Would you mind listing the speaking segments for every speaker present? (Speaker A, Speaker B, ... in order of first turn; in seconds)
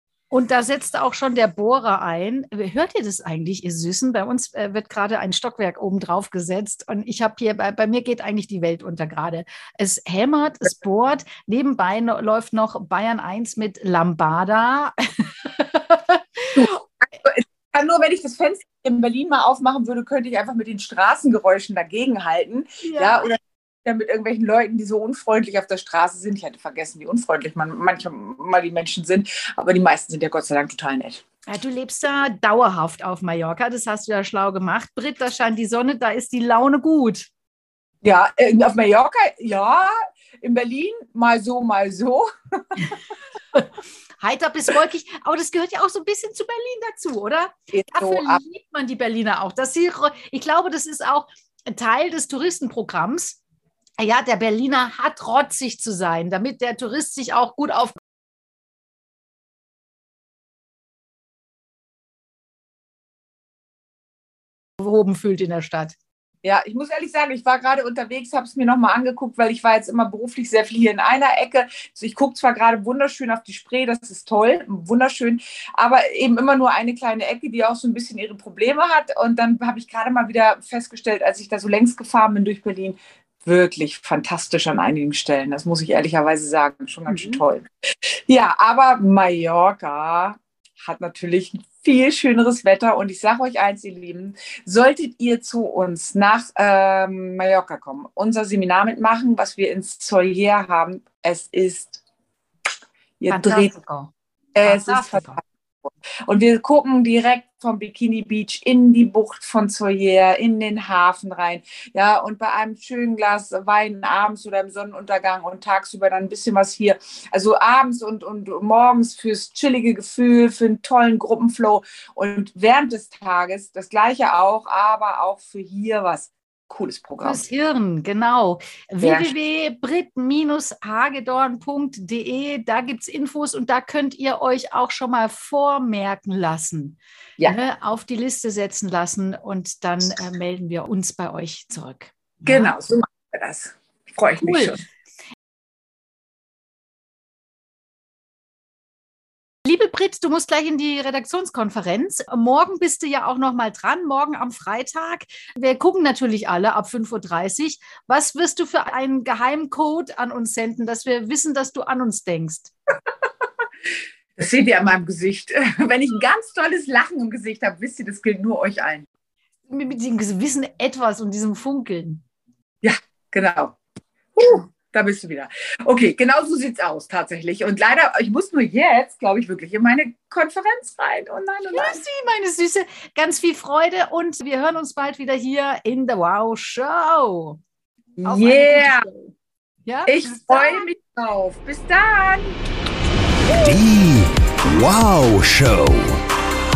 Speaker A: 0.3-16.8, 22.8-23.2, 31.5-37.3, 44.2-53.4, 54.0-58.0, 64.8-66.0, 87.1-87.4, 103.3-105.4, 127.2-142.7, 144.4-144.8, 149.7-162.7, 169.7-172.2, 181.7-187.6, 188.2-189.3, 189.8-190.9
Speaker B: 16.5-31.2, 38.0-43.0, 47.7-48.4, 66.4-87.7, 88.3-102.0, 103.2-103.7, 104.5-127.4, 129.0-129.3, 142.4-144.8, 164.4-169.1, 172.8-173.8, 174.3-182.0, 188.2-189.1, 190.1-192.6
Speaker C: 193.6-196.1